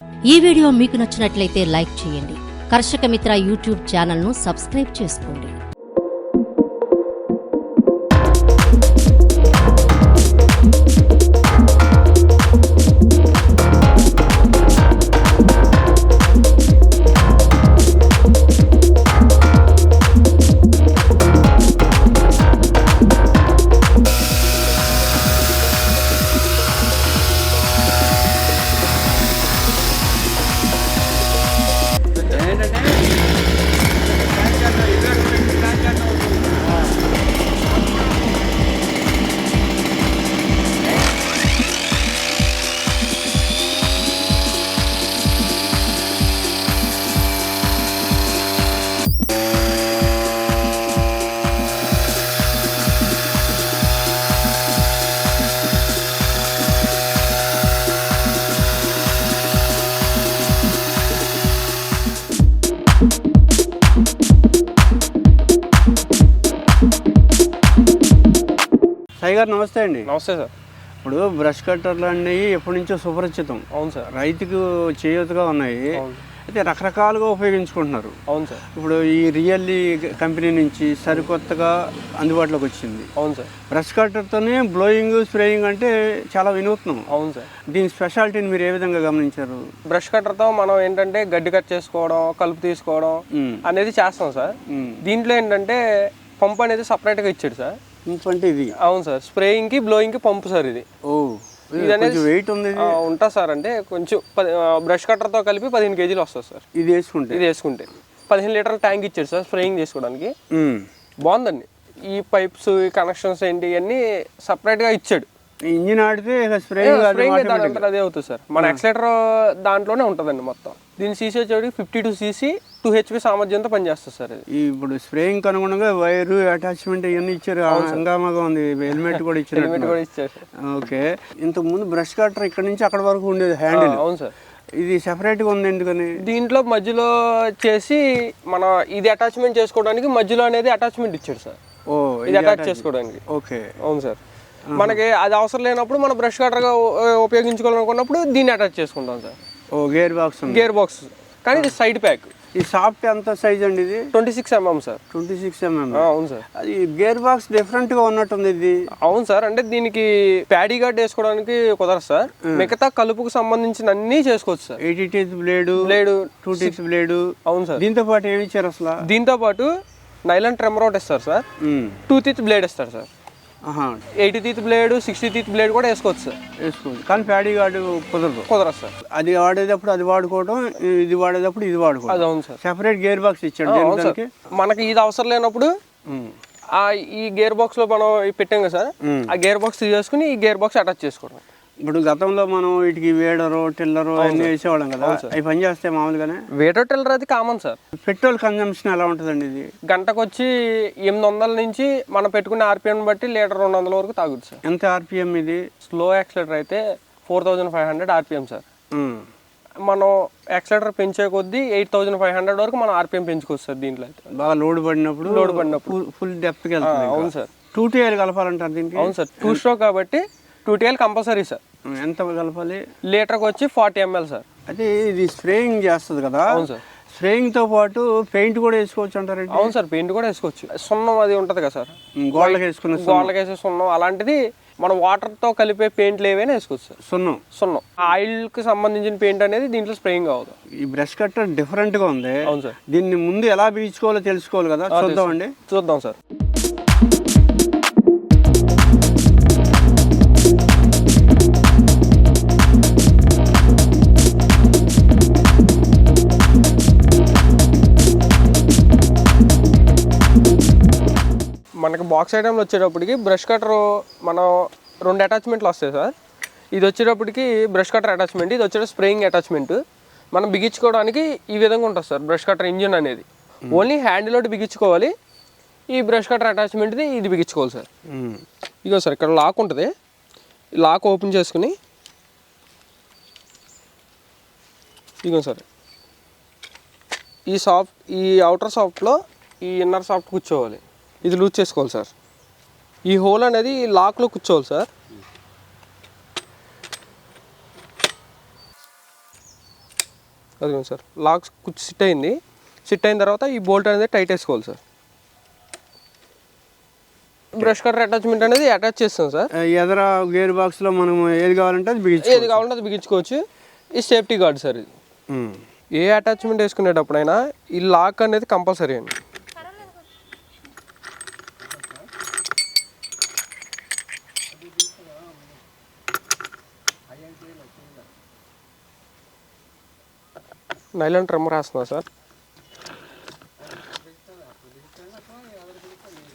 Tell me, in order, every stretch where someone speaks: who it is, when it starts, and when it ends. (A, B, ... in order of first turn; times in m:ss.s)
0:00.3-0:05.5 A
0:32.2-0:33.1 B
0:34.1-0:36.7 B
1:09.2-1:10.1 C
1:10.1-1:10.5 B
1:11.0-1:15.9 C
1:13.7-1:14.1 B
1:16.0-1:16.2 B
1:16.5-1:18.1 C
1:18.3-1:18.6 B
1:18.8-1:23.1 C
1:23.2-1:23.5 B
1:23.7-1:27.0 C
1:27.1-1:27.5 B
1:27.7-1:29.6 C
1:29.9-1:37.8 B
1:33.3-1:33.6 C
1:34.7-1:35.0 C
1:38.1-1:38.7 C
1:38.8-1:40.8 B
1:41.1-1:43.0 C
1:41.8-1:42.3 B
1:42.8-1:46.6 B
1:46.8-1:47.4 C
1:47.3-1:50.3 B
1:50.5-1:50.8 C
1:51.2-1:55.3 B
1:55.7-1:57.9 C
1:56.8-2:04.4 B
2:04.5-2:10.0 C
2:07.7-2:08.0 B
2:09.1-2:10.4 B
2:10.6-2:14.0 C
2:13.7-2:14.3 B
2:14.8-2:16.1 C
2:16.2-2:21.6 B
2:21.9-2:23.7 C
2:22.3-2:23.2 B
2:23.8-2:24.2 B
2:24.7-2:25.0 C
2:24.8-2:29.4 B
2:29.8-2:30.7 C
2:30.5-2:32.3 B
2:32.6-2:34.0 C
2:34.1-2:35.0 B
2:35.1-2:38.8 C
2:35.9-2:36.4 B
2:39.0-2:44.8 B
2:44.8-2:45.8 C
2:45.8-2:46.8 B
2:46.4-2:49.0 C
2:47.5-2:47.8 B
2:49.0-2:49.7 B
2:50.3-2:51.4 B
2:51.6-2:52.0 C
2:52.1-2:53.1 B
2:53.7-2:54.0 C
2:54.2-2:56.4 B
2:56.6-2:58.5 C
2:58.5-2:58.9 B
2:59.1-3:04.3 C
3:02.1-3:02.6 B
3:03.7-3:05.7 B
3:06.8-3:11.4 B
3:09.0-3:09.3 C
3:11.8-3:16.4 C
3:14.2-3:15.3 B
3:16.6-3:17.8 B
3:18.0-3:19.7 C
3:19.9-3:20.5 B
3:21.0-3:24.6 B
3:24.6-3:25.6 C
3:25.8-3:28.6 B
3:28.9-3:29.2 C
3:29.8-3:34.2 B
3:34.4-3:39.6 C
3:35.2-3:36.0 B
3:36.8-3:37.5 B
3:39.0-3:41.6 B
3:41.9-3:42.8 C
3:43.1-3:44.4 B
3:44.7-3:49.7 C
3:46.5-3:46.8 B
3:49.5-3:57.0 B
3:52.2-3:53.3 C
3:57.1-3:57.4 C
3:57.5-4:00.6 B
4:00.8-4:05.5 C
4:02.5-4:02.8 B
4:04.9-4:06.2 B
4:21.8-4:24.5 B
4:25.0-4:26.1 B
4:26.8-4:29.8 B
4:30.3-4:35.1 B
4:35.9-4:37.9 B
4:38.1-4:38.4 C
4:38.8-4:39.9 B
4:40.8-4:41.8 B
4:45.2-4:45.6 B
4:47.5-4:52.1 B
4:53.1-4:54.9 B
5:00.6-5:04.8 B
5:07.6-5:09.5 B
5:09.6-5:12.6 C
5:12.3-5:13.4 B
5:14.0-5:14.9 B
5:15.3-5:15.6 C
5:16.0-5:19.1 B
5:31.0-5:32.0 B